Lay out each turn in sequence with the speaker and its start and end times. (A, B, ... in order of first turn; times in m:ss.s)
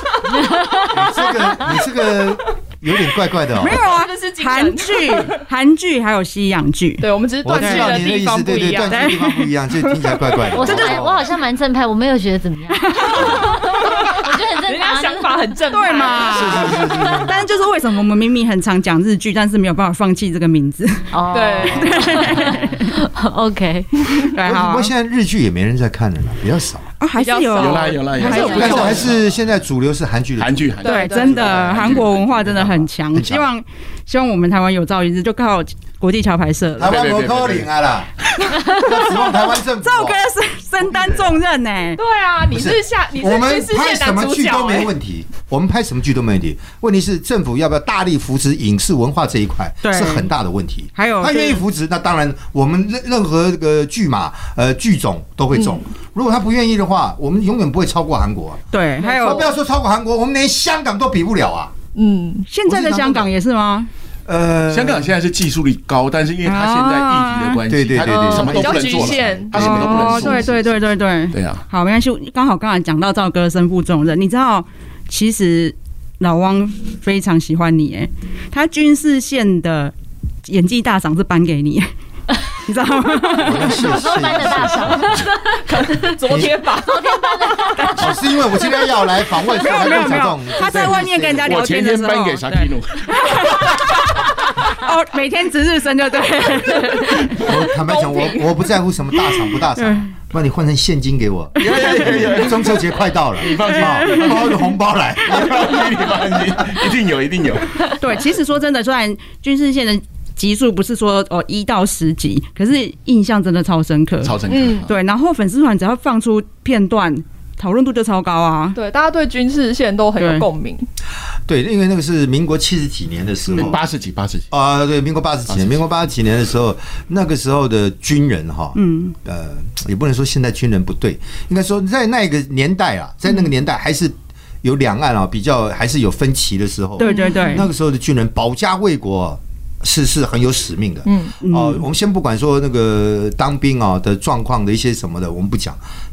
0:00.4-0:01.7 A
0:00.9-0:03.8 B
0:03.6-0:08.0 C
0:03.8-0:05.4 D
0:07.0-0:09.1 D
0:07.4-0:11.3 B
0:08.8-0:09.5 C
0:10.5-0:15.5 A
0:12.9-0:13.5 C
0:14.0-0:16.9 D
0:15.7-0:21.1 C
0:16.3-0:17.4 B
0:16.5-0:17.3 A
0:21.1-0:24.1 A
0:21.3-0:22.2 D
0:21.6-0:22.8 C
0:24.3-0:24.9 C
0:24.4-0:26.9 B
0:27.0-0:29.0 C
0:27.2-0:29.1 D
0:27.6-0:29.2 E
0:28.5-0:30.7 B
0:30.4-0:32.5 E
0:30.8-0:32.0 D
0:30.8-0:37.0 C
0:32.4-0:33.5 B
0:36.8-0:40.2 B
0:36.8-0:37.7 E
0:38.4-0:42.0 C
0:42.0-0:44.9 D
0:42.5-1:01.7 B
0:49.8-0:50.3 C
0:51.0-0:51.6 C
0:55.5-0:55.8 D
0:58.7-0:59.5 C
0:59.0-0:59.5 D
1:01.9-1:02.5 D
1:02.5-1:03.9 C
1:02.7-1:03.3 B
1:04.2-1:05.1 B
1:04.7-1:10.7 E
1:06.4-1:07.6 C
1:07.7-1:09.2 B
1:08.0-1:10.4 D
1:09.5-1:19.9 C
1:11.3-1:11.6 E
1:20.4-1:21.9 C
1:22.5-1:23.9 C
1:23.3-1:25.9 A
1:23.4-1:25.0 B
1:25.0-1:28.0 D
1:26.2-1:26.5 B
1:26.7-1:28.3 A
1:28.0-1:31.6 B
1:29.5-1:37.5 C
1:30.7-1:33.8 E
1:37.4-1:38.6 D
1:37.4-1:46.8 B
1:39.8-1:40.1 C
1:41.6-1:44.6 E
1:43.7-1:44.3 C
1:45.2-1:48.0 E
1:47.9-1:58.8 C
1:54.2-1:54.9 E
1:54.5-1:54.9 D
1:58.7-2:00.9 D
2:00.2-2:00.5 C
2:01.5-2:03.8 B
2:03.5-2:04.5 E
2:04.5-2:25.8 B
2:05.5-2:05.8 E
2:08.7-2:09.1 C
2:17.0-2:17.7 C
2:17.0-2:17.4 A
2:17.1-2:17.5 D
2:21.0-2:21.4 D
2:21.4-2:21.8 C